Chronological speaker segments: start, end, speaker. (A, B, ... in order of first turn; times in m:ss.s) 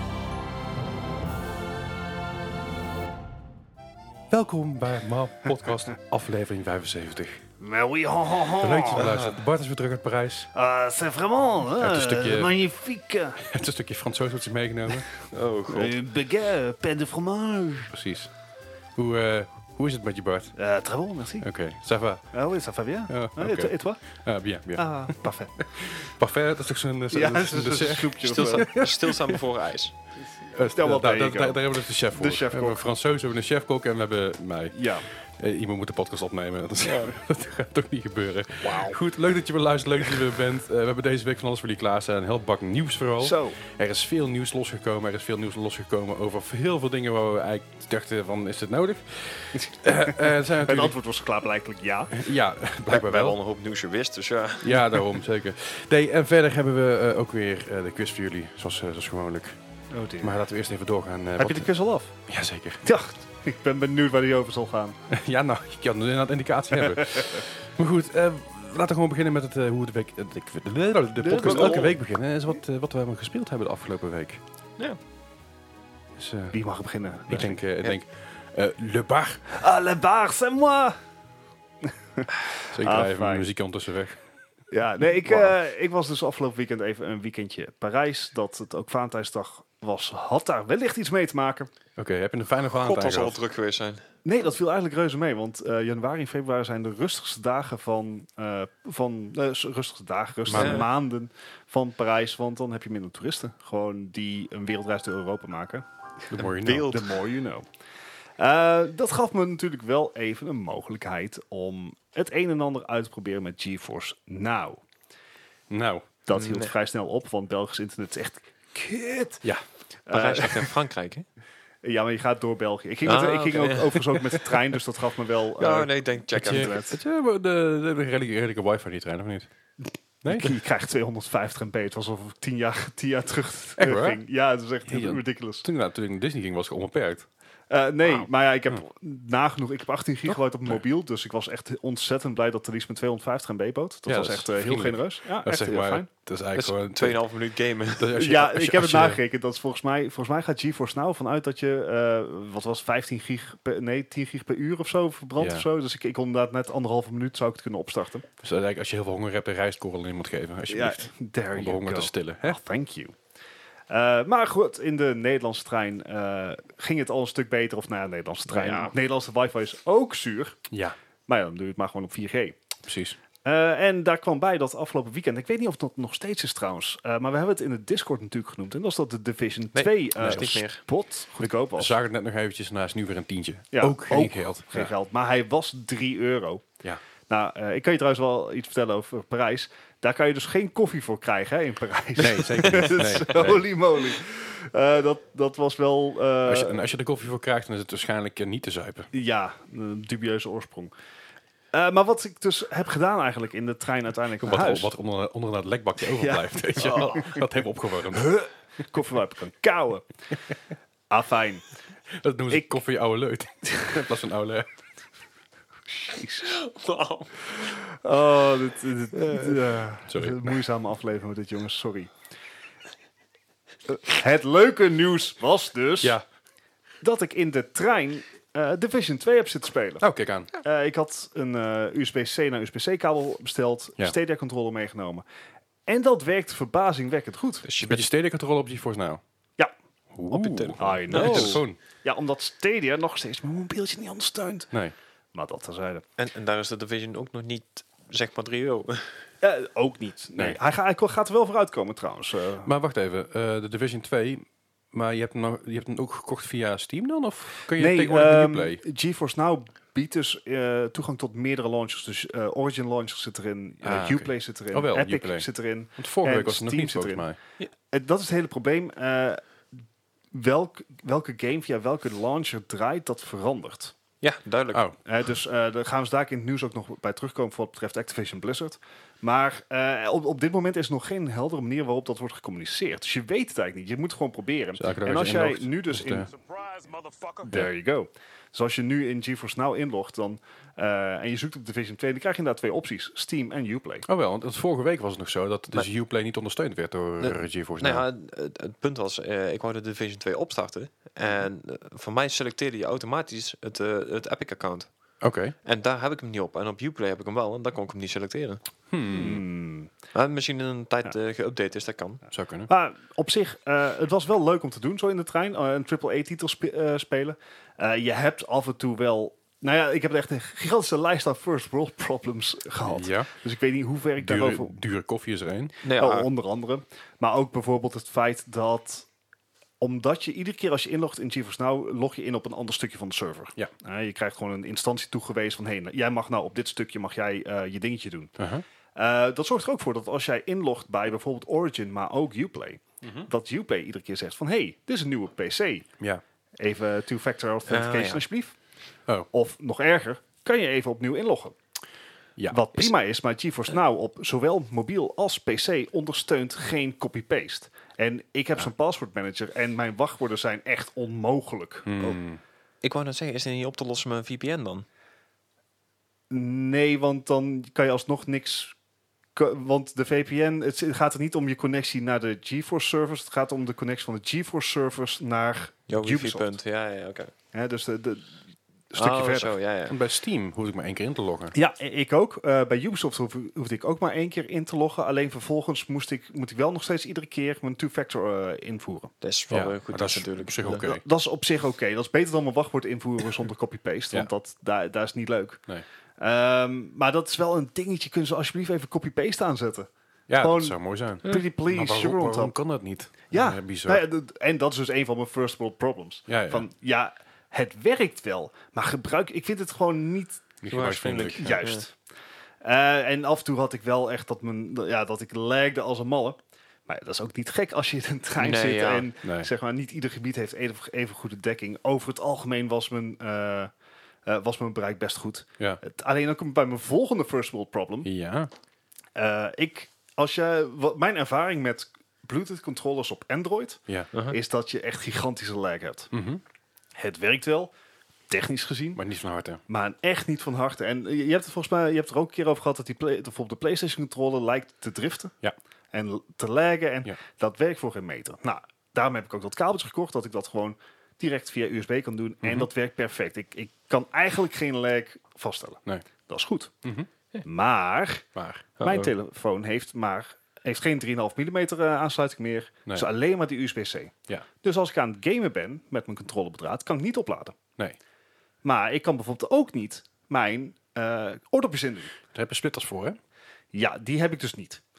0:04.3-0:07.4 A
0:07.6-0:09.2 B
0:08.5-0:10.5 A
0:10.5-0:13.4 B
0:11.8-0:12.5 A
0:13.4-0:15.2 A
0:15.3-0:16.0 C
0:15.7-0:17.9 B
0:17.9-0:18.3 A
0:18.9-0:20.6 A
0:20.5-0:21.5 B
0:21.4-0:22.3 A
0:22.3-0:24.0 B
0:23.1-0:29.4 A
0:24.7-0:25.6 B
0:27.1-0:28.8 B
0:28.2-0:30.0 C
0:30.4-0:32.8 B
0:30.5-0:50.9 A
0:34.7-0:35.0 B
0:36.8-0:37.1 C
0:38.6-0:39.0 B
0:43.2-0:43.6 B
0:49.6-0:52.2 B
0:52.1-0:53.4 A
0:52.9-0:54.8 C
0:54.6-0:59.6 A
0:59.9-1:00.4 B
1:00.2-1:01.7 A
1:01.4-1:02.1 B
1:02.2-1:02.8 A
1:02.8-1:05.0 B
1:05.1-1:14.4 A
1:06.7-1:07.4 B
1:11.2-1:12.0 B
1:11.4-1:12.0 C
1:16.2-1:16.6 A
1:16.5-1:17.6 B
1:17.3-1:19.5 A
1:19.5-1:21.0 B
1:21.8-1:23.5 B
1:22.6-1:24.2 A
1:24.7-1:31.7 B
1:32.0-1:33.4 A
1:32.7-1:34.0 C
1:34.2-1:45.8 B
1:40.5-1:40.8 A
1:40.5-1:40.9 C
1:46.3-1:46.9 A
1:46.4-1:47.1 C
1:46.8-1:47.7 B
1:48.4-1:54.8 B
1:55.7-1:56.1 A
1:56.3-1:59.4 B
1:56.3-1:56.7 C
2:00.1-2:00.8 B
2:00.1-2:01.2 C
2:01.8-2:07.0 B
2:03.0-2:04.5 C
2:05.6-2:06.8 C
2:06.4-2:09.5 A
2:10.2-2:10.5 A
2:10.3-2:15.6 B
2:13.8-2:14.2 A
2:14.9-2:17.3 A
2:17.7-2:26.1 B
2:24.0-2:27.2 A
2:26.5-2:28.2 C
2:28.0-2:29.2 A
2:28.1-2:38.2 B
2:35.4-2:35.7 A
2:38.4-2:42.6 A
2:40.7-2:43.1 B
2:43.9-2:50.6 B
2:48.5-2:48.9 C
2:50.7-2:51.0 A
2:51.3-2:52.6 B
2:52.8-2:53.2 A
2:53.4-3:01.9 B
2:59.7-3:00.8 C
3:00.2-3:00.5 A
3:01.4-3:04.9 A
3:03.7-3:06.6 B
3:07.3-3:16.8 B
3:12.2-3:13.6 A
3:16.4-3:19.1 A
3:19.1-3:20.9 B
3:21.7-3:24.9 B
3:24.4-3:28.4 A
3:26.0-3:27.4 B
3:26.8-3:27.3 C
3:28.1-3:30.1 B
3:31.1-3:31.6 B
3:32.1-3:34.7 A
3:35.9-3:36.6 B
3:36.4-3:37.5 C
3:37.7-3:42.1 B
3:39.1-3:39.7 C
3:40.1-3:40.4 A
3:43.9-3:46.2 B
3:47.0-3:50.0 B
3:50.0-3:50.5 A
3:50.6-3:55.2 B
3:55.9-3:57.6 B
3:57.6-3:58.0 C
3:57.8-3:59.2 A
4:00.1-4:01.8 A
4:00.3-4:01.6 C
4:00.8-4:04.7 B
4:05.3-4:06.0 B
4:06.2-4:09.2 C
4:09.4-4:12.7 B
4:12.6-4:18.8 A
4:17.8-4:27.2 B
4:23.8-4:27.4 A
4:27.9-4:29.4 B
4:30.3-4:33.9 B
4:34.2-4:34.8 C
4:35.0-4:46.4 B
4:44.8-4:46.3 A
4:47.4-4:54.0 B
4:54.1-4:58.0 A
4:57.2-5:04.9 C
5:05.2-5:05.6 A
5:05.6-5:08.6 C
5:08.9-5:09.4 A
5:09.1-5:09.9 B
5:10.1-5:12.2 C
5:12.3-5:12.7 A
5:12.7-5:24.8 B
5:22.8-5:23.3 A
5:24.2-5:25.7 A
5:25.8-5:26.3 C
5:25.9-5:29.1 B
5:29.8-5:38.3 B
5:38.4-5:38.6 A
5:38.9-5:45.9 B
5:43.0-5:43.3 A
5:46.6-5:48.5 B
5:47.7-5:48.2 C
5:49.3-5:51.6 B
5:52.4-5:52.6 A
5:52.5-6:02.2 B
6:01.8-6:02.4 A
6:02.8-6:04.8 C
6:06.3-6:08.8 B
6:09.3-6:16.5 B
6:15.9-6:17.3 C
6:17.5-6:18.4 B
6:18.9-6:19.6 B
6:19.0-6:20.0 C
6:19.9-6:21.5 A
6:21.5-6:29.1 B
6:29.2-6:30.8 C
6:29.5-6:31.0 A
6:30.8-6:35.7 B
6:36.2-6:42.6 B
6:40.3-6:44.0 A
6:43.3-6:50.5 B
6:46.3-6:46.7 A
6:50.6-6:51.5 A
6:50.7-6:51.8 C
6:51.3-6:52.0 B
6:52.6-7:03.7 B
6:58.4-6:59.1 C
6:59.2-6:59.5 A
7:04.2-7:08.1 B
7:08.0-7:08.5 A
7:09.1-7:16.1 B
7:14.1-7:14.4 C
7:16.1-7:16.4 A
7:17.0-7:17.7 B
7:18.3-7:19.0 B
7:18.9-7:19.6 A
7:19.7-7:25.4 B
7:25.9-7:36.7 B
7:32.4-7:32.7 A
7:36.8-7:37.1 A
7:37.4-7:38.2 B
7:38.3-7:38.7 A
7:38.8-7:39.1 C
7:38.8-7:47.6 B
7:48.6-7:52.1 B
7:52.3-7:53.2 A
7:53.7-7:54.8 B